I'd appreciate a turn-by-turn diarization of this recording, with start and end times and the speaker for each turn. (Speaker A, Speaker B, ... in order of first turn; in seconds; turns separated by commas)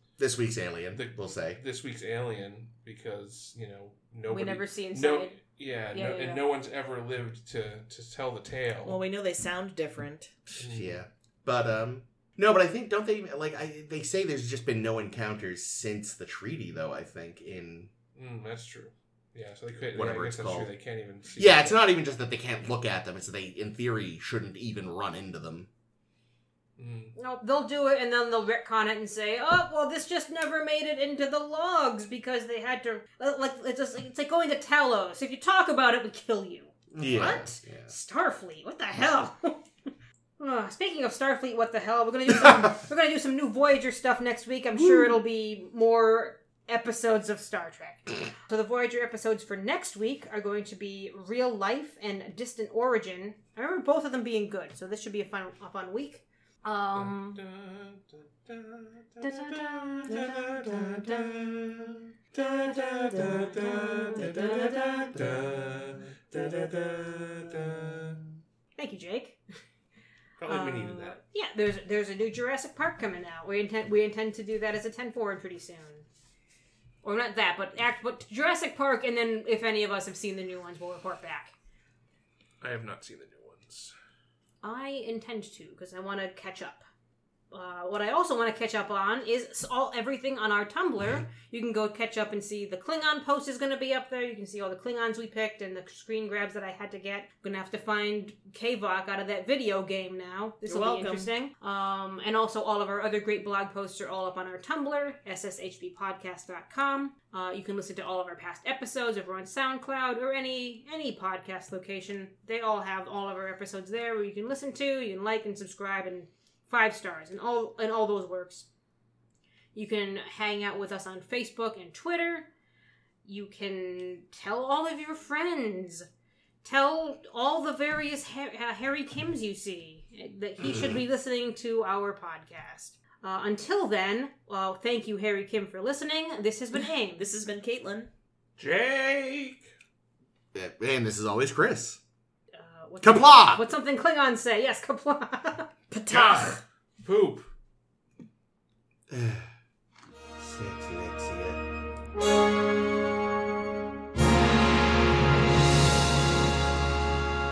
Speaker A: 0.2-1.6, Speaker B: 0.9-9.0, Speaker C: 4.3-5.4, Speaker C: 5.9-6.4, Speaker D: 8.8-10.3, Speaker B: 10.6-11.0, Speaker A: 10.6-17.9, Speaker B: 18.1-21.9, Speaker A: 19.9-20.7, Speaker A: 21.4-25.7, Speaker B: 26.8-27.1, Speaker C: 27.1-39.6, Speaker A: 36.9-37.9, Speaker C: 40.4-57.4, Speaker B: 56.9-61.5, Speaker C: 59.2-61.0, Speaker B: 62.3-68.2, Speaker A: 65.1-65.6, Speaker C: 68.8-69.4, Speaker B: 70.4-71.2, Speaker C: 70.5-76.0, Speaker C: 77.0-81.5, Speaker B: 82.6-83.9, Speaker C: 84.6-86.8, Speaker C: 87.5-118.7, Speaker D: 100.7-101.3, Speaker C: 119.7-122.5, Speaker C: 123.2-126.1, Speaker C: 126.6-137.2, Speaker D: 137.2-138.1, Speaker B: 138.6-139.7, Speaker A: 140.5-142.0, Speaker C: 142.5-145.7, Speaker A: 143.0-143.7, Speaker D: 145.9-146.6, Speaker B: 146.1-147.5, Speaker A: 149.1-149.5, Speaker A: 150.4-151.6